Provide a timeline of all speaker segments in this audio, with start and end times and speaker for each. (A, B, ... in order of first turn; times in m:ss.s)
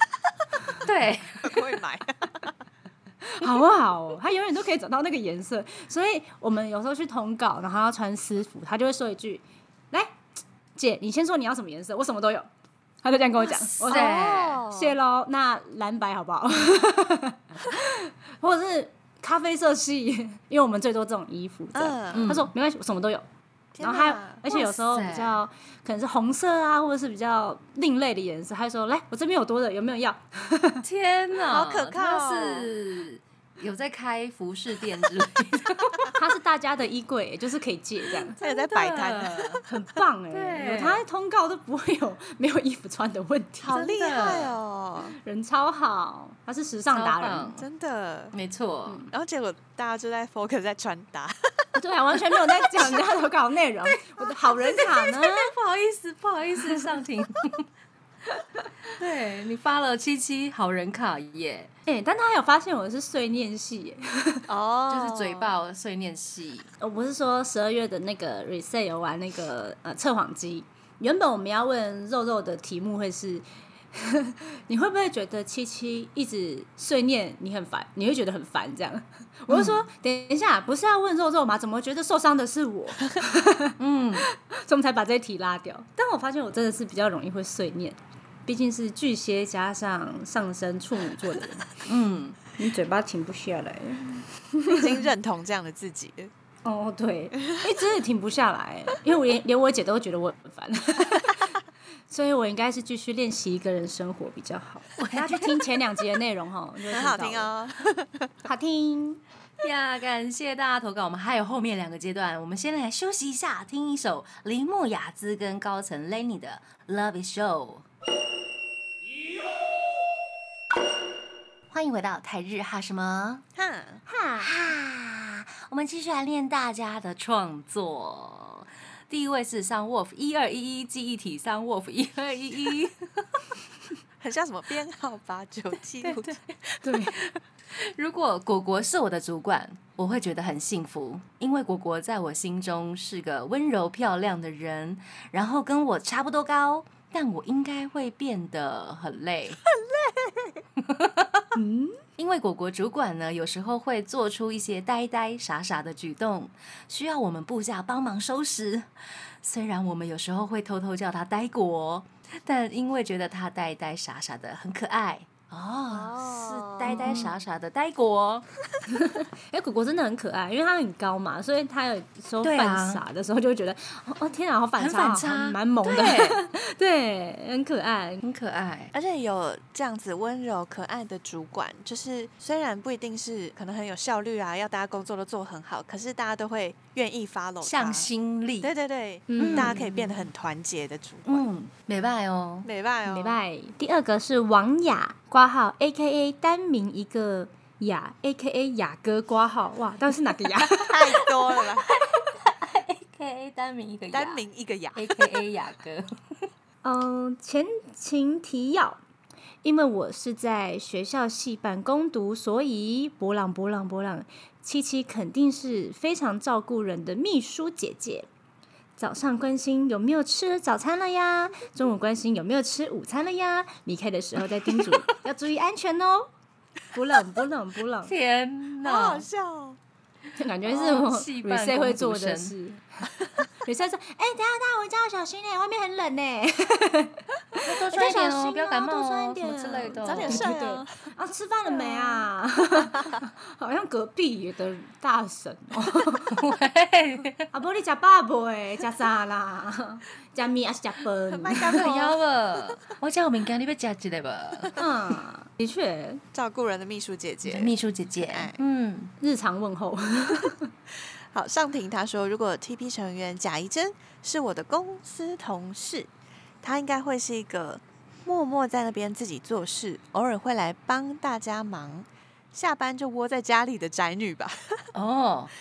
0:00.8-0:01.6 A
0:01.4-0:02.5 B
0:03.2-0:10.2 C
0:10.7-0:12.5 C
0:13.0-0:23.2 C
0:13.7-0:14.6 A
0:13.8-0:15.0 B
0:21.7-0:22.4 B
0:22.1-0:22.5 A
0:23.7-0:24.4 B
0:23.8-0:30.8 C
0:24.5-0:25.4 A
0:30.8-0:36.1 A
0:31.4-0:32.7 B
0:36.1-0:38.4 C
0:38.4-0:39.6 B
0:38.4-0:39.6 A
0:39.6-0:43.7 C
0:40.3-0:41.0 A
0:43.6-0:45.2 B
0:43.7-0:44.6 A
0:45.2-0:47.5 C
0:46.9-0:47.6 A
0:47.6-0:48.4 B
0:48.3-0:49.1 A
0:49.1-0:51.7 B
0:51.7-0:55.5 C
0:54.8-0:57.6 A
0:58.9-1:01.7 A
1:01.9-1:04.4 C
1:04.5-1:05.5 B
1:04.9-1:06.7 A
1:06.8-1:31.7 C
1:19.5-1:19.8 A
1:23.8-1:24.3 A
1:31.9-1:32.4 A
1:32.6-1:35.0 C
1:34.7-1:36.3 B
1:36.6-1:41.5 C
1:42.1-1:47.5 C
1:45.0-1:45.6 A
1:46.9-1:48.3 B
1:48.4-1:49.2 C
1:49.6-1:57.9 A
2:01.7-2:03.4 A
2:03.6-2:04.0 B
2:04.1-2:04.5 C
2:04.4-2:13.5 A
2:14.2-2:16.4 B
2:16.0-2:29.6 A
2:16.8-2:17.2 C
2:29.7-2:30.6 B
2:30.8-2:31.5 A
2:31.5-2:32.0 C
2:32.2-2:48.5 A
2:45.9-2:47.2 B
2:46.9-2:47.3 C
2:48.9-2:58.2 C
2:52.4-2:53.0 A
2:54.8-2:56.4 A
2:58.2-2:58.9 A
2:58.9-3:08.1 B
3:07.6-3:08.7 A
3:08.6-3:11.4 B
3:09.3-3:09.8 C
3:09.4-3:10.0 A
3:11.2-3:12.7 A
3:12.6-3:13.4 B
3:13.0-3:21.2 C
3:20.8-3:21.9 B
3:21.9-3:26.4 A
3:24.1-3:25.3 B
3:26.8-3:29.0 C
3:29.6-3:38.3 C
3:39.0-3:46.3 C
3:44.7-3:45.0 A
3:46.9-3:48.1 C
3:48.0-3:49.3 A
3:48.8-3:49.8 B
3:50.4-4:06.4 C
3:50.6-3:52.5 A
3:57.6-4:00.5 A
4:00.0-4:01.0 B
4:01.9-4:02.2 B
4:06.3-4:07.5 A
4:07.5-4:11.8 C
4:11.3-4:12.7 B
4:11.7-4:14.7 A
4:14.8-4:16.2 C
4:16.3-4:18.6 B
4:17.4-4:19.1 A
4:19.2-4:20.7 C
4:21.3-4:26.1 B
4:26.6-4:34.9 B
4:34.9-4:35.5 A